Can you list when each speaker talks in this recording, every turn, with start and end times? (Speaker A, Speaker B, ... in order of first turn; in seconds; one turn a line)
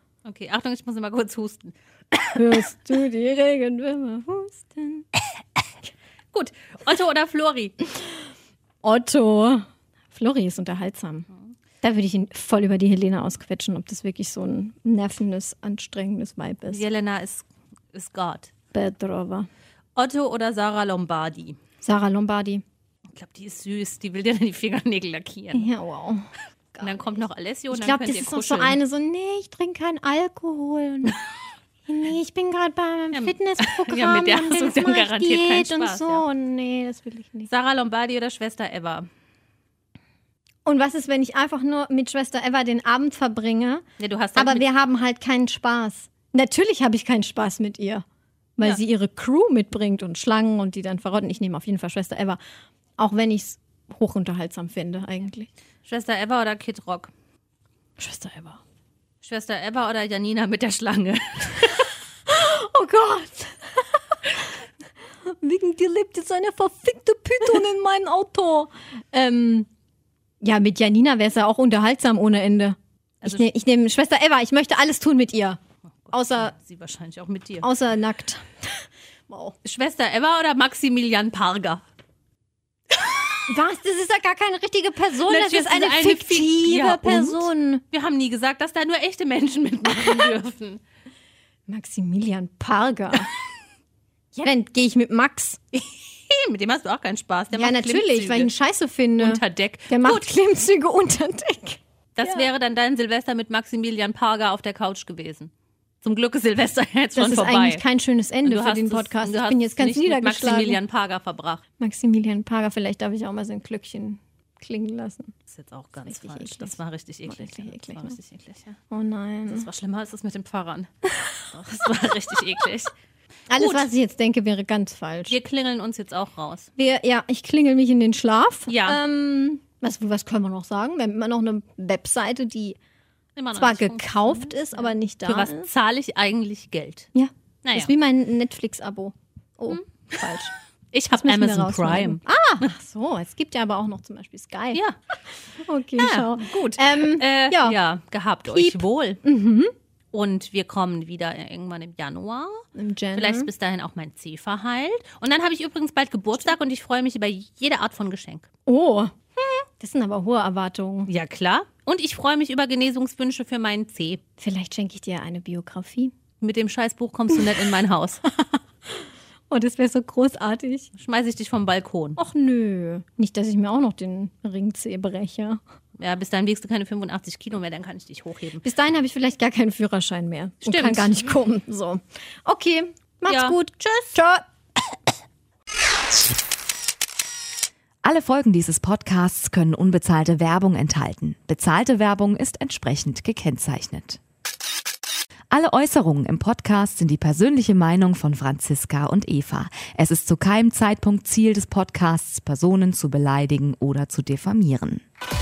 Speaker A: 0.2-2.6
Speaker B: 2.4-5.1
Speaker A: 6.3-7.8
Speaker B: 8.8-11.3
Speaker B: 11.8-16.9
Speaker A: 16.7-18.5
Speaker B: 18.7-19.5
Speaker A: 20.0-21.6
Speaker B: 21.8-22.6
Speaker A: 23.1-25.7
Speaker B: 25.5-31.2
Speaker A: 26.8-28.8
Speaker B: 31.9-37.5
Speaker A: 33.1-36.2
Speaker A: 37.5-39.1
Speaker B: 40.6-43.8
Speaker A: 44.0-44.6
Speaker B: 44.4-48.0
Speaker B: 48.6-52.4
Speaker B: 53.0-55.5
Speaker A: 55.9-57.1
Speaker B: 58.0-58.6
Speaker A: 59.2-61.9
Speaker B: 62.3-64.5
Speaker B: 65.2-69.7
Speaker B: 70.4-75.6
Speaker A: 76.0-77.7
Speaker B: 76.1-76.5
Speaker B: 77.6-79.6
Speaker A: 79.6-81.8
Speaker B: 83.5-87.8
Speaker A: 85.2-90.8
Speaker B: 90.0-90.3
Speaker B: 91.7-93.3
Speaker B: 94.3-95.6
Speaker A: 95.7-98.5
Speaker B: 97.5-102.5
Speaker A: 99.2-100.3
Speaker A: 102.2-105.5
Speaker A: 106.0-107.8
Speaker B: 107.2-110.8
Speaker A: 108.4-111.6
Speaker B: 111.8-115.3
Speaker A: 115.5-118.8
Speaker B: 116.1-116.7
Speaker B: 117.3-118.2
Speaker B: 118.9-119.7
Speaker A: 119.5-120.9
Speaker A: 121.5-122.9
Speaker B: 123.5-125.4
Speaker A: 123.6-123.9
Speaker A: 125.3-126.7
Speaker B: 126.8-132.8
Speaker A: 128.7-129.0
Speaker A: 133.4-137.1
Speaker B: 133.5-135.7
Speaker B: 137.2-140.5
Speaker A: 137.6-137.9
Speaker A: 140.9-142.2
Speaker B: 141.1-144.8
Speaker B: 145.5-147.8
Speaker A: 146.0-149.2
Speaker B: 148.5-149.7
Speaker A: 150.1-158.5
Speaker B: 152.8-153.5
Speaker B: 158.7-161.1
Speaker A: 161.1-164.2
Speaker B: 164.4-166.1
Speaker A: 166.4-168.2
Speaker B: 167.3-167.6
Speaker B: 168.3-170.9
Speaker A: 170.9-172.2
Speaker B: 172.2-175.6
Speaker A: 176.0-178.7
Speaker B: 178.6-184.4
Speaker A: 180.6-181.1
Speaker A: 183.3-184.2
Speaker C: 188.0-194.2
Speaker C: 195.5-205.1